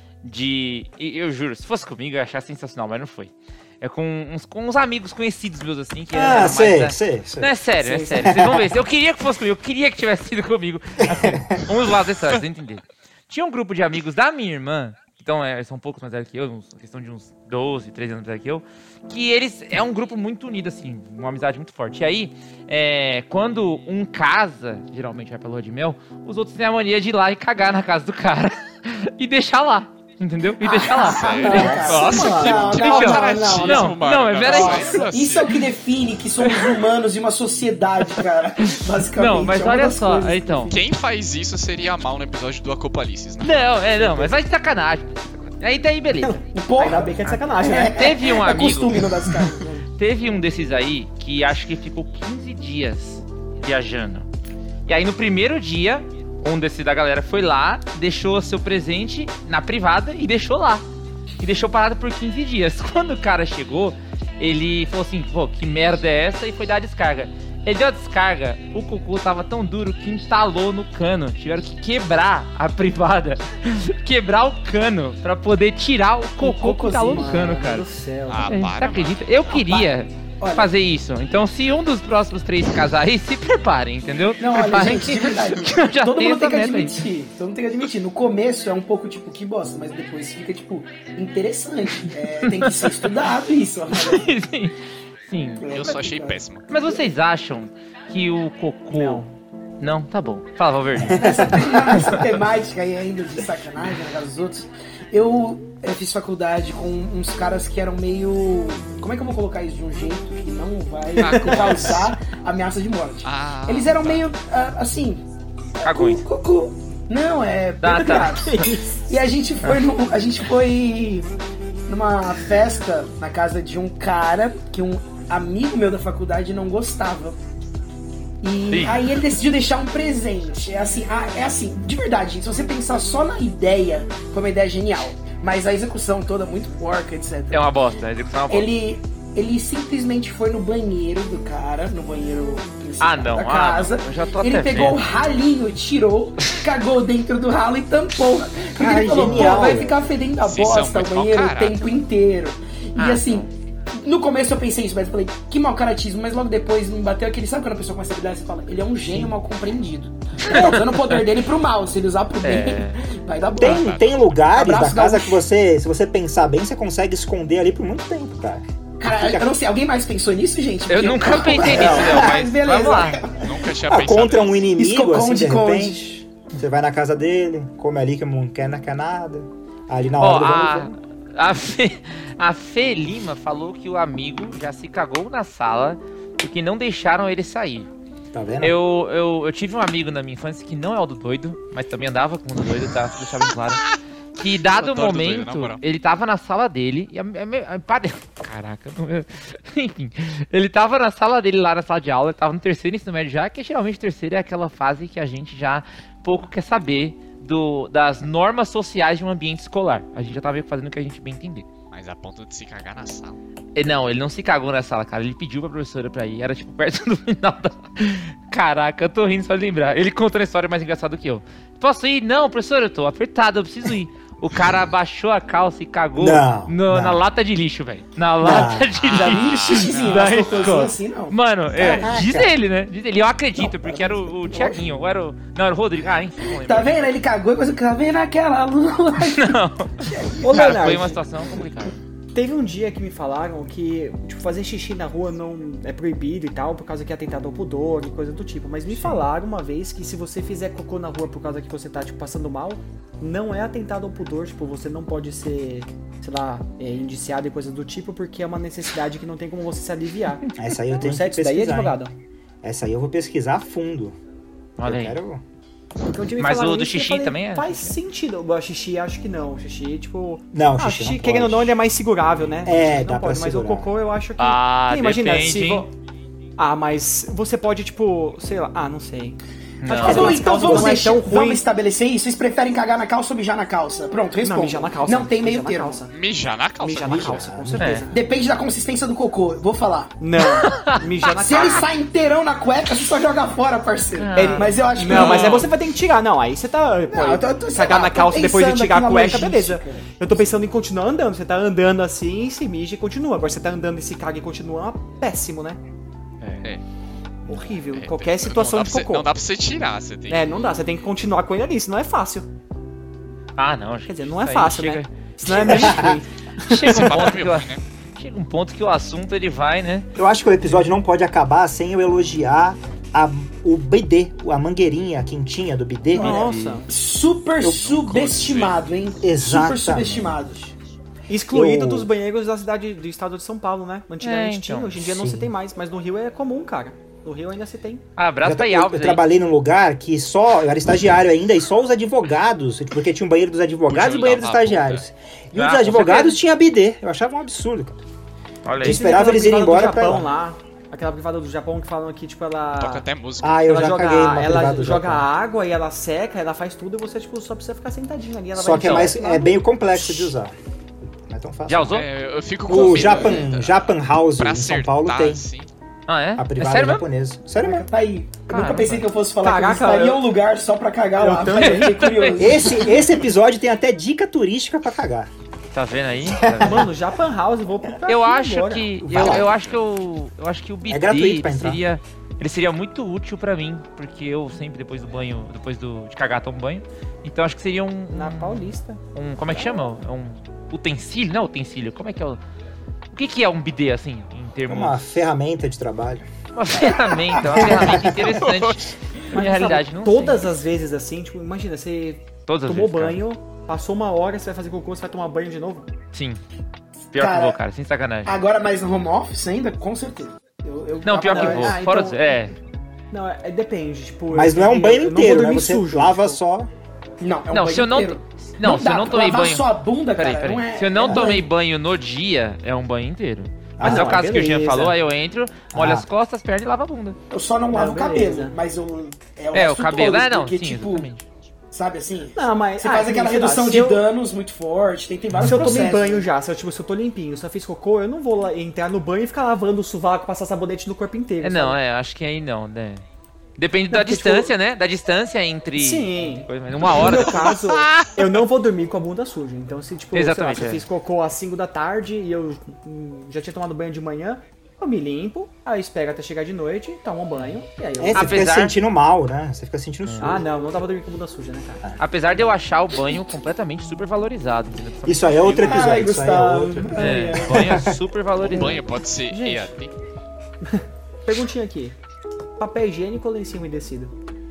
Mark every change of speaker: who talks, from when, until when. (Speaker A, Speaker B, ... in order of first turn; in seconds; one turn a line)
Speaker A: 0.2-35.1
Speaker B: 6.1-7.5
Speaker C: 7.8-8.3
Speaker B: 8.2-8.8
Speaker B: 11.0-11.6
Speaker D: 30.6-33.9
Speaker E: 30.9-35.7
Speaker C: 31.4-33.9
Speaker D: 34.4-40.8
Speaker C: 34.5-35.1
Speaker A: 38.6-40.8
Speaker E: 40.7-44.0
Speaker A: 43.4-46.4
Speaker C: 46.2-48.0
Speaker D: 46.5-49.7
Speaker A: 47.9-49.1
Speaker C: 49.5-49.9
Speaker A: 50.0-54.3
Speaker A: 54.9-60.8
Speaker A: 61.4-77.9
Speaker D: 76.4-77.7
Speaker C: 76.7-78.7
Speaker E: 78.3-79.2
Speaker A: 78.5-87.0
Speaker D: 79.5-80.7
Speaker D: 84.4-94.3
Speaker A: 92.5-93.1
Speaker A: 93.9-95.7
Speaker D: 95.6-97.0
Speaker E: 95.7-96.7
Speaker A: 96.7-99.2
Speaker C: 98.9-99.3
Speaker A: 99.8-101.2
Speaker B: 101.0-102.2
Speaker D: 101.1-115.2
Speaker E: 111.1-112.1
Speaker C: 111.3-111.8
Speaker E: 113.2-114.2
Speaker A: 115.8-116.2
Speaker D: 115.8-121.3
Speaker A: 117.8-118.8
Speaker C: 117.9-118.8
Speaker D: 121.9-127.4
Speaker D: 128.4-137.7
Speaker A: 128.7-129.0
Speaker A: 137.5-138.7
Speaker D: 138.5-153.4
Speaker A: 143.0-145.0
Speaker C: 148.8-149.9
Speaker B: 149.1-150.0
Speaker E: 150.4-151.8
Speaker A: 152.9-153.5
Speaker D: 154.0-165.4
Speaker A: 160.4-161.2
Speaker A: 162.4-163.0
Speaker B: 163.6-169.5
Speaker E: 163.6-164.2
Speaker D: 169.0-173.6
Speaker A: 170.9-173.2
Speaker C: 171.6-172.0
Speaker B: 171.7-172.2
Speaker E: 173.2-174.6
Speaker B: 173.9-180.9
Speaker D: 174.8-176.0
Speaker A: 180.2-187.9
Speaker B: 188.3-188.8
Speaker A: 188.6-193.8
Speaker A: 194.4-211.7
Speaker E: 194.7-195.8
Speaker E: 211.9-213.4
Speaker A: 213.7-237.2
Speaker B: 226.2-227.2
Speaker B: 228.4-229.0
Speaker D: 228.5-232.5
Speaker E: 229.2-230.9
Speaker D: 233.6-234.9
Speaker D: 236.4-241.9
Speaker A: 239.1-242.0
Speaker C: 240.4-241.2
Speaker C: 242.3-262.1
Speaker B: 248.9-249.2
Speaker B: 260.6-262.0
Speaker B: 262.6-264.2
Speaker A: 264.8-265.2
Speaker B: 264.8-265.4
Speaker C: 266.0-275.9
Speaker A: 266.4-268.0
Speaker B: 270.5-271.8
Speaker B: 272.6-273.9
Speaker A: 274.4-275.9
Speaker C: 276.6-281.6
Speaker A: 279.8-280.4
Speaker D: 279.9-286.0
Speaker B: 279.9-280.8
Speaker C: 284.4-286.1
Speaker E: 286.1-287.5
Speaker C: 286.8-288.2
Speaker B: 287.1-287.9
Speaker A: 287.8-288.1
Speaker D: 288.1-290.1
Speaker C: 290.2-291.9
Speaker A: 290.4-291.9
Speaker D: 291.4-295.7
Speaker A: 294.2-294.9
Speaker C: 294.3-305.8
Speaker E: 295.1-295.7
Speaker D: 297.1-300.4
Speaker A: 306.4-306.7
Speaker C: 307.5-309.3
Speaker E: 307.7-311.1
Speaker C: 310.3-312.5
Speaker A: 313.6-316.1
Speaker C: 314.1-317.3
Speaker B: 315.7-316.2
Speaker A: 316.6-320.1
Speaker E: 316.8-317.8
Speaker B: 320.1-326.5
Speaker C: 326.1-326.9
Speaker A: 326.2-326.8
Speaker D: 326.9-330.6
Speaker B: 327.6-328.2
Speaker E: 327.6-328.8
Speaker B: 329.2-330.7
Speaker C: 331.3-338.0
Speaker B: 331.5-332.1
Speaker A: 334.2-335.0
Speaker B: 335.0-335.5
Speaker A: 338.2-339.2
Speaker B: 338.4-348.0
Speaker E: 343.9-345.0
Speaker A: 345.5-346.4
Speaker A: 348.6-349.1
Speaker B: 348.8-350.3
Speaker C: 348.8-353.0
Speaker E: 352.8-353.8
Speaker B: 353.4-355.3
Speaker C: 353.7-360.2
Speaker B: 358.5-360.5
Speaker A: 358.7-359.2
Speaker B: 361.2-362.0
Speaker A: 361.7-362.1
Speaker E: 361.9-365.7
Speaker B: 362.6-365.4
Speaker D: 362.7-363.4
Speaker A: 366.1-367.1
Speaker B: 366.4-367.9
Speaker D: 367.5-373.0
Speaker A: 368.5-369.1
Speaker C: 369.4-370.3
Speaker C: 371.2-372.2
Speaker A: 371.5-372.7
Speaker B: 372.4-375.3
Speaker A: 375.7-376.9
Speaker B: 376.2-376.9
Speaker C: 376.6-379.0
Speaker A: 378.1-392.4
Speaker B: 379.0-379.5
Speaker E: 379.1-379.8
Speaker B: 380.9-381.8
Speaker C: 388.1-389.9
Speaker A: 393.1-395.0
Speaker B: 394.7-396.3
Speaker A: 396.5-400.5
Speaker B: 397.3-398.4
Speaker E: 398.4-398.9
Speaker C: 399.3-405.9
Speaker A: 402.4-403.2
Speaker A: 406.1-406.4
Speaker A: 407.1-408.4
Speaker D: 407.2-407.6
Speaker D: 408.2-411.8
Speaker A: 411.0-412.5
Speaker C: 411.2-412.5
Speaker C: 413.1-416.4
Speaker B: 414.3-416.7
Speaker D: 417.2-421.5
Speaker A: 417.5-427.2
Speaker B: 421.0-421.4
Speaker B: 423.8-424.2
Speaker C: 423.8-425.0
Speaker B: 425.7-426.1
Speaker D: 427.3-431.1
Speaker C: 427.7-428.6
Speaker A: 429.5-431.2
Speaker D: 431.7-436.3
Speaker C: 432.3-434.0
Speaker B: 435.3-435.9
Speaker C: 435.4-441.8
Speaker A: 441.4-443.0
Speaker A: 443.6-448.1
Speaker C: 443.9-444.5
Speaker C: 445.7-458.4
Speaker A: 450.1-450.8
Speaker B: 458.0-460.5
Speaker A: 458.1-458.8
Speaker A: 460.0-460.3
Speaker C: 460.2-461.9
Speaker A: 462.0-466.1
Speaker B: 465.0-468.9
Speaker D: 465.5-467.7
Speaker C: 465.7-467.5
Speaker A: 466.9-468.9
Speaker E: 468.4-469.9
Speaker C: 469.3-469.7
Speaker C: 470.6-471.9
Speaker C: 472.6-474.1